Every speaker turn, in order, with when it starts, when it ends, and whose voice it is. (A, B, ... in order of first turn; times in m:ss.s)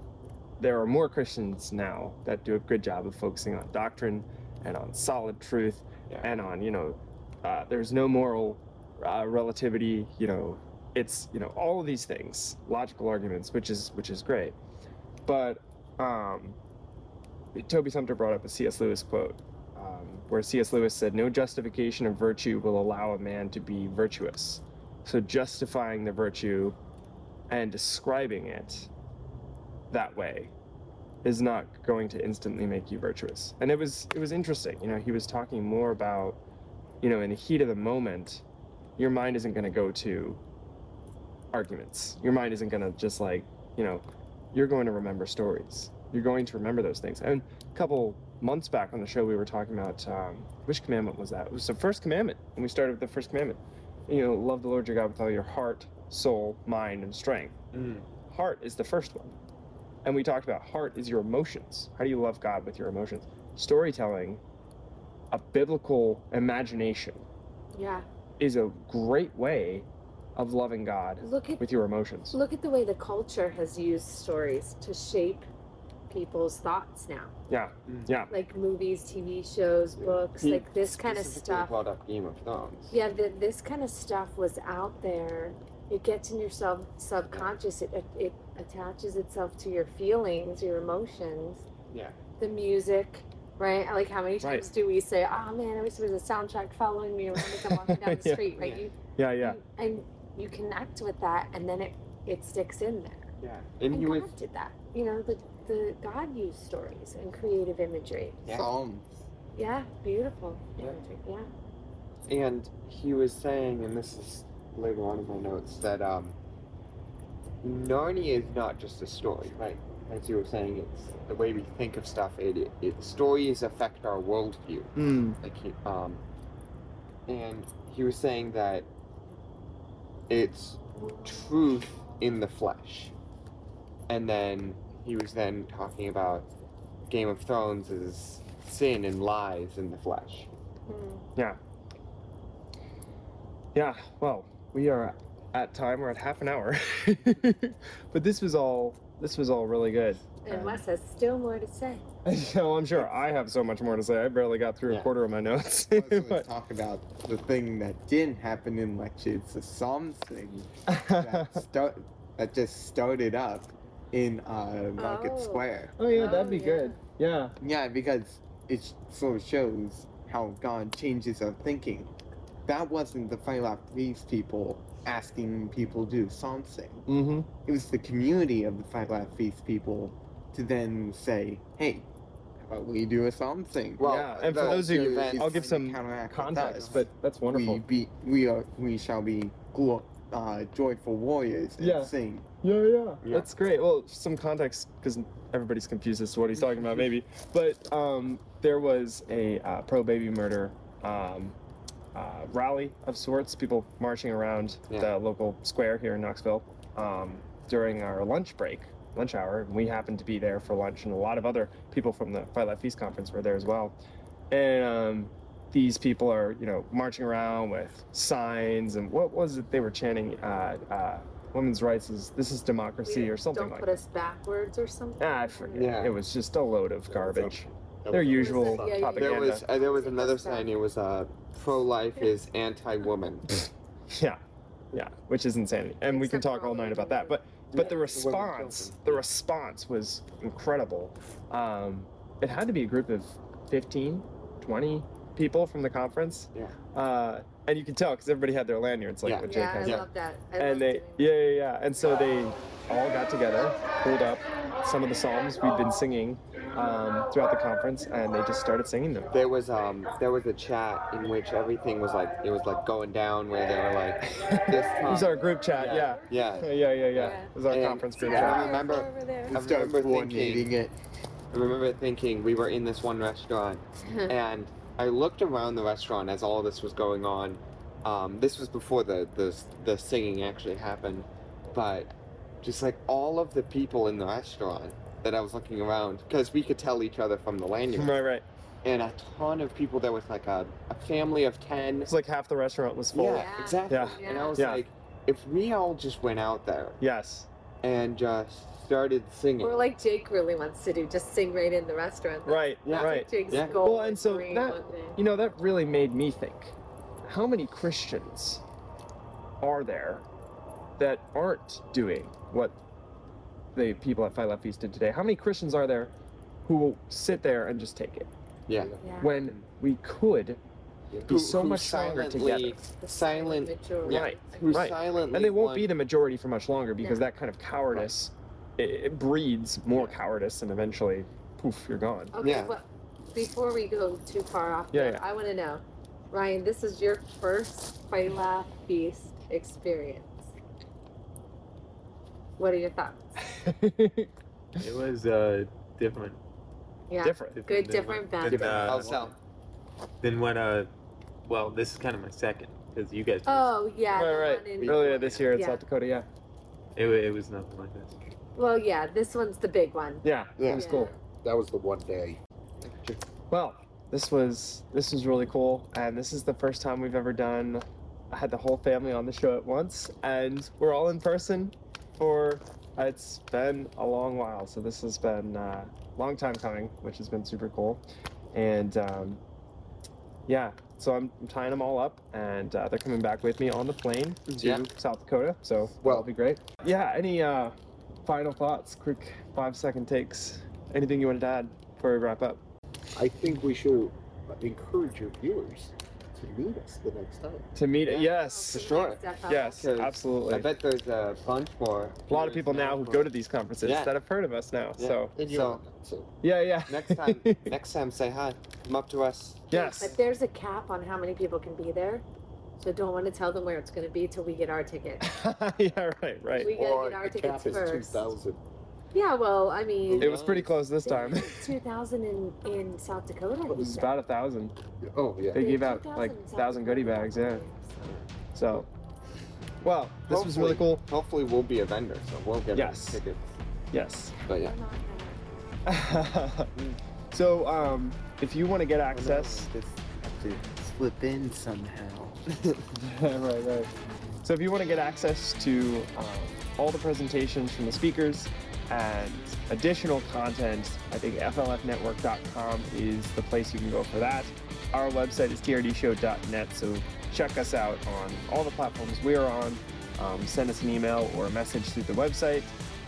0:00.6-0:14.6 A
0:15.3-0:16.6 A
0:17.5-0:26.8 A
0:27.5-0:28.9 A
0:29.9-0:30.5 A
0:31.2-0:36.4 A
0:37.0-0:38.4 A
0:39.0-0:40.4 A
0:41.5-0:57.6 A
0:57.7-0:58.0 B
0:58.2-0:59.3 A
1:00.0-1:04.4 A
1:05.3-1:07.2 A
1:07.7-1:08.0 C
1:08.4-1:12.4 A
1:11.2-1:11.6 C
1:12.3-1:15.4 C
1:16.1-1:17.3 C
1:17.5-1:18.3 A
1:17.9-1:18.1 B
1:18.3-1:21.7 C
1:20.0-1:23.0 B
1:22.9-1:31.7 C
1:31.9-1:32.2 B
1:32.4-1:43.3 C
1:34.4-1:34.7 A
1:37.4-1:38.5 A
1:39.2-1:39.6 A
1:43.4-1:44.3 B
1:43.9-1:48.4 C
1:48.4-1:48.7 B
1:48.5-1:49.0 D
1:49.6-1:51.5 C
1:52.3-1:56.4 B
1:57.6-2:06.2 B
2:05.0-2:05.4 A
2:07.3-2:08.9 B
2:10.3-2:13.1 B
2:14.1-2:16.5 B
2:17.1-2:20.5 B
2:20.9-2:21.2 C
2:23.7-2:30.8 A
2:30.4-2:32.0 C
2:32.2-2:36.5 A
2:35.9-2:46.5 D
2:40.9-2:41.6 A
2:45.0-2:47.0 C
2:46.0-2:47.5 A
2:47.6-2:52.1 D
2:52.6-2:57.1 D
2:57.1-2:57.5 A
2:57.6-3:12.5 D
3:04.0-3:07.1 B
3:04.0-3:07.8 A
3:11.8-3:21.6 A
3:13.2-3:13.5 B
3:22.1-3:34.0 A
3:34.5-3:43.9 A
3:43.0-3:46.1 C
3:45.2-3:49.6 A
3:45.7-3:46.2 B
3:47.1-3:49.1 E
3:48.2-3:50.7 C
3:49.2-3:53.7 B
3:54.1-3:54.4 A
3:54.9-4:10.0 A
3:56.1-3:57.4 C
3:57.7-3:59.2 B
3:58.1-3:58.9 E
4:09.2-4:10.0 B
4:09.4-4:12.2 C
4:10.6-4:19.3 A
4:19.3-4:30.7 B
4:24.3-4:28.9 A
4:27.1-4:27.5 C
4:28.2-4:29.6 C
4:29.5-4:30.9 D
4:31.5-4:48.2 B
4:34.0-4:34.3 C
4:47.9-4:48.4 A
4:48.8-4:52.1 B
4:52.1-4:54.8 A
4:53.1-4:57.0 B
4:53.3-4:54.6 C
4:57.0-4:57.5 A
4:57.8-4:59.8 B
4:59.6-5:05.2 C
5:02.4-5:08.6 A
5:02.8-5:03.8 B
5:09.6-5:10.2 A
5:11.0-5:12.7 A
5:13.7-5:16.1 A
5:16.6-5:18.3 A
5:18.7-5:19.6 B
5:18.7-5:19.1 E
5:19.0-5:19.3 C
5:19.2-5:20.6 A
5:21.1-5:21.4 E
5:21.2-5:22.8 A
5:21.3-5:25.9 B
5:23.0-5:25.2 C
5:24.0-5:32.4 A
5:27.0-5:27.3 C
5:29.9-5:30.2 B
5:32.3-5:40.5 C
5:32.4-5:32.7 B
5:34.9-5:35.2 A
5:42.6-5:43.4 C
5:43.4-5:44.3 A
5:44.8-5:46.4 F
5:47.1-5:48.8 C
5:47.2-5:47.6 A
5:47.5-5:49.3 F
5:48.4-5:49.4 B
5:48.5-5:49.2 A
5:50.2-5:50.9 F
5:51.4-5:54.0 F
5:53.4-5:55.8 C
5:54.1-5:56.3 A
5:54.4-5:55.5 B
5:57.0-5:58.1 F
5:58.5-6:01.1 C
6:00.2-6:01.1 A
6:00.6-6:02.4 E
6:02.8-6:03.2 B
6:03.5-6:19.4 A
6:20.5-6:32.6 A
6:24.5-6:24.9 B
6:26.0-6:26.3 E
6:33.1-6:37.7 E
6:37.8-6:38.8 A
6:38.0-6:43.3 B
6:38.4-6:39.8 C
6:39.5-6:40.7 A
6:42.3-6:45.3 A
6:43.8-6:44.1 B
6:45.0-6:45.8 B
6:45.4-6:46.3 E
6:46.4-6:47.7 A
6:46.9-6:50.2 B
6:49.7-6:50.1 A
6:49.7-6:52.2 C
6:52.8-6:55.2 C
6:55.2-6:56.7 A
6:56.5-6:58.3 C
6:56.6-6:58.6 E
6:59.1-7:00.4 C
7:00.1-7:00.8 B
7:00.2-7:01.7 A
7:01.0-7:04.1 C
7:03.7-7:04.7 A
7:05.0-7:05.6 E
7:05.5-7:07.6 A
7:05.5-7:08.1 C
7:08.5-7:08.9 A
7:09.8-7:11.0 A
7:10.3-7:13.6 B
7:12.7-7:13.2 A
7:13.9-7:14.4 A
7:14.4-7:15.4 C
7:14.5-7:14.8 B
7:15.8-7:16.7 A
7:17.3-7:19.7 A
7:19.1-7:19.9 B
7:20.0-7:22.4 D
7:22.9-7:23.9 A
7:24.4-7:42.7 A